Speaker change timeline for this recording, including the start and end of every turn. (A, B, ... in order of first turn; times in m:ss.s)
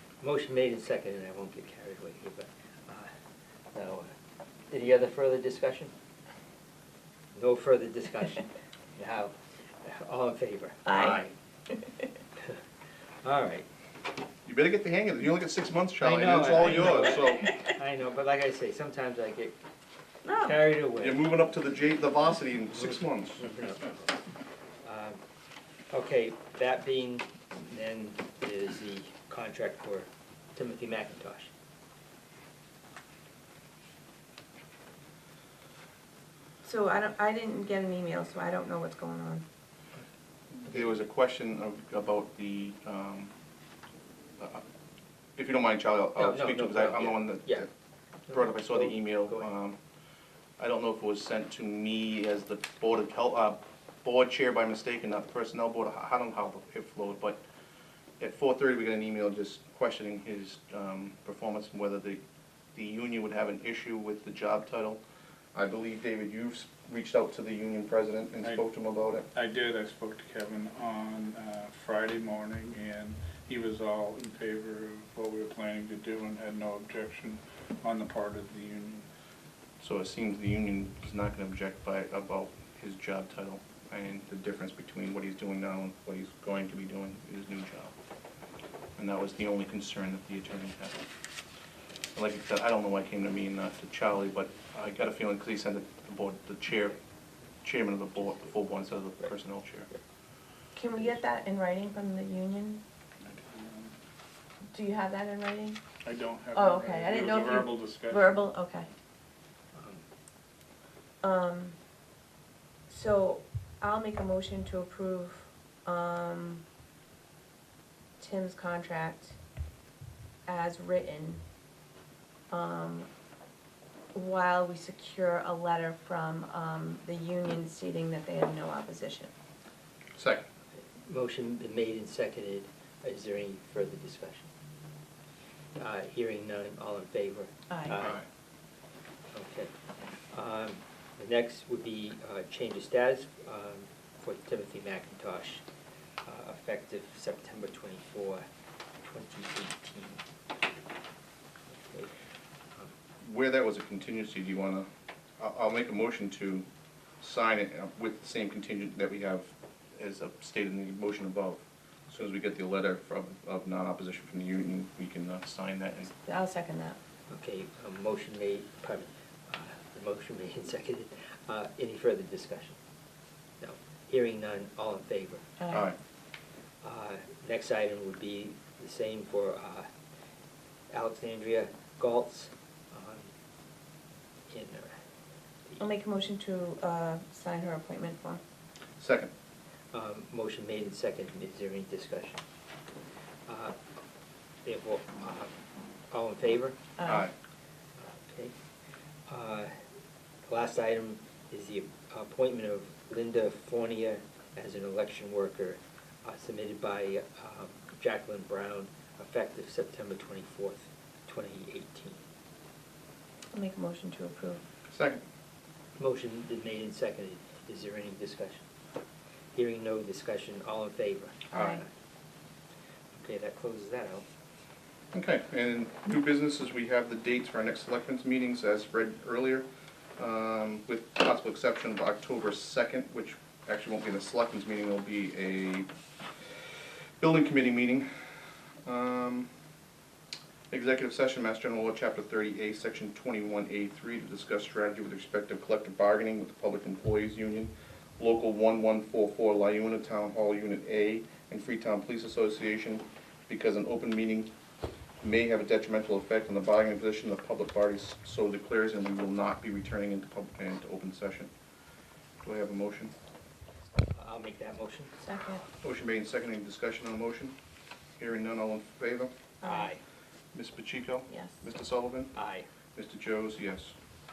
0:00.2-0:03.1 A
0:03.7-0:04.1 A
0:04.7-0:05.9 A
0:07.3-0:11.3 A
0:10.8-0:11.2 B
0:13.2-0:13.6 A
0:14.4-0:17.6 C
0:16.0-0:19.6 A
0:20.2-0:20.6 B
0:20.4-0:21.3 A
0:21.0-0:23.4 C
0:23.4-0:24.1 A
0:24.8-0:25.2 A
0:25.9-0:31.5 A
0:36.6-0:39.4 B
0:40.5-0:43.3 C
0:45.4-0:47.7 C
0:46.2-0:47.6 A
0:48.3-0:49.5 A
0:48.3-0:49.8 C
0:50.6-0:57.4 C
0:58.2-1:02.2 C
1:02.7-1:05.0 C
1:05.5-1:09.2 C
1:09.3-1:19.1 D
1:19.8-1:27.9 C
1:29.0-1:31.0 C
1:32.1-1:37.0 C
1:37.6-1:39.9 C
1:40.7-1:42.8 B
1:43.2-1:43.9 D
1:44.7-1:45.8 B
1:46.0-1:48.4 D
1:46.5-1:48.9 B
1:49.7-1:50.0 A
1:51.2-1:51.8 B
1:52.9-1:56.6 B
1:58.2-1:59.4 B
2:00.4-2:01.4 B
2:02.5-2:03.1 B
2:04.1-2:09.3 B
2:10.2-2:10.4 C
2:11.0-2:14.5 A
2:15.8-2:18.2 A
2:17.7-2:18.0 B
2:18.0-2:18.2 C
2:19.3-2:19.7 A
2:20.3-2:25.6 A
2:26.2-2:28.4 A
2:29.0-2:30.2 A
2:31.7-2:32.1 A
2:33.2-2:34.9 C
2:35.4-2:36.6 C
2:37.2-2:46.1 C
2:46.1-2:47.0 B
2:47.3-2:52.8 A
2:53.6-2:55.4 A
2:55.6-2:55.9 B
2:55.7-2:56.0 C
2:56.8-2:59.9 A
3:00.9-3:03.3 A
3:04.5-3:04.9 A
3:05.8-3:08.4 B
3:09.0-3:09.3 C
3:09.9-3:12.4 A
3:13.5-3:13.7 A
3:14.6-3:15.5 A
3:16.1-3:16.8 A
3:17.0-3:17.3 B
3:17.0-3:17.3 C
3:18.0-3:18.5 A
3:19.3-3:19.7 A
3:20.5-3:32.2 A
3:33.5-3:34.6 B
3:34.9-3:35.2 C
3:36.0-3:38.6 A
3:39.5-3:41.9 A
3:41.5-3:41.8 B
3:43.2-3:44.2 A
3:45.1-3:49.6 C
3:50.2-3:55.9 C
3:57.2-3:58.1 C
3:58.8-3:59.5 C
4:00.7-4:14.5 C
4:15.2-4:21.5 C
4:22.4-4:23.1 C
4:24.1-4:25.1 A
4:25.2-4:25.6 B
4:25.8-4:27.5 C
4:28.2-4:29.3 C
4:29.6-4:29.9 B
4:29.6-4:30.0 A
4:30.5-4:32.3 C
4:32.3-4:32.7 A
4:33.0-4:34.0 C